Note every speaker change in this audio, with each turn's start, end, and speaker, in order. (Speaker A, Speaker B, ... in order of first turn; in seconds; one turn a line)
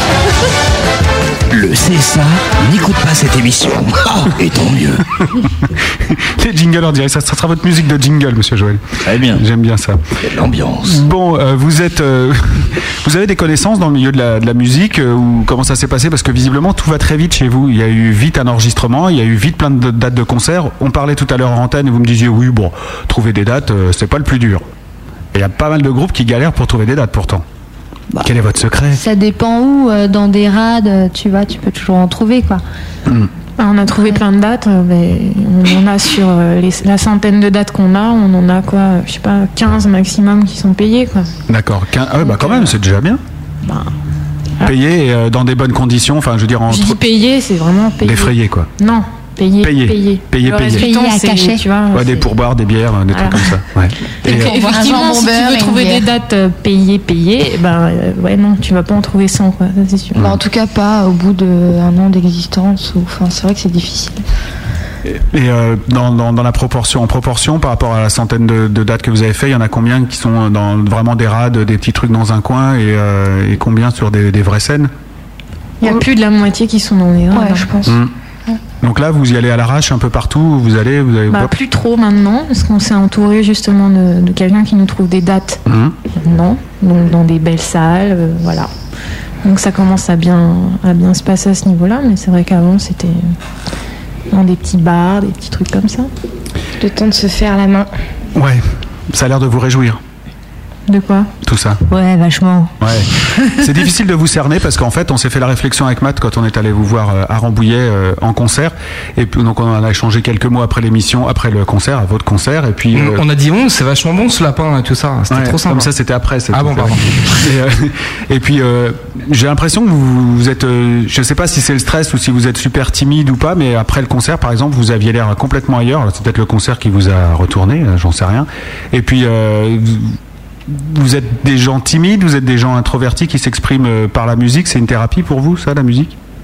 Speaker A: 1.5-5.0
Speaker B: 5.4-10.0
Speaker A: 10.3-10.8
Speaker B: 10.8-24.6
Speaker B: 25.3-27.4
Speaker B: 28.2-29.0
Speaker C: 28.9-32.6
Speaker D: 33.6-41.3
Speaker B: 41.5-43.2
Speaker D: 42.2-42.7
Speaker D: 43.6-43.9
Speaker B: 44.6-47.0
Speaker D: 46.7-52.3
Speaker B: 48.0-48.7
Speaker B: 49.6-50.9
Speaker C: 50.7-51.6
Speaker B: 51.9-54.7
Speaker D: 53.1-53.5
Speaker D: 54.2-60.2
Speaker E: 54.2-56.1
Speaker B: 60.1-60.4
Speaker E: 60.1-64.2
Speaker B: 65.0-74.9
Speaker D: 75.8-77.7
Speaker E: 77.3-78.6
Speaker B: 77.9-78.1
Speaker B: 78.8-81.5
Speaker D: 81.3-88.7
Speaker B: 85.7-85.9
Speaker D: 89.4-93.3
Speaker D: 94.3-96.1
Speaker E: 96.8-97.9
Speaker B: 98.3-100.0
Speaker D: 100.9-101.3
Speaker B: 101.4-101.8
Speaker C: 101.9-102.7
Speaker B: 102.8-113.2
Speaker F: 112.9-115.9
Speaker B: 115.3-136.1
Speaker F: 116.5-117.4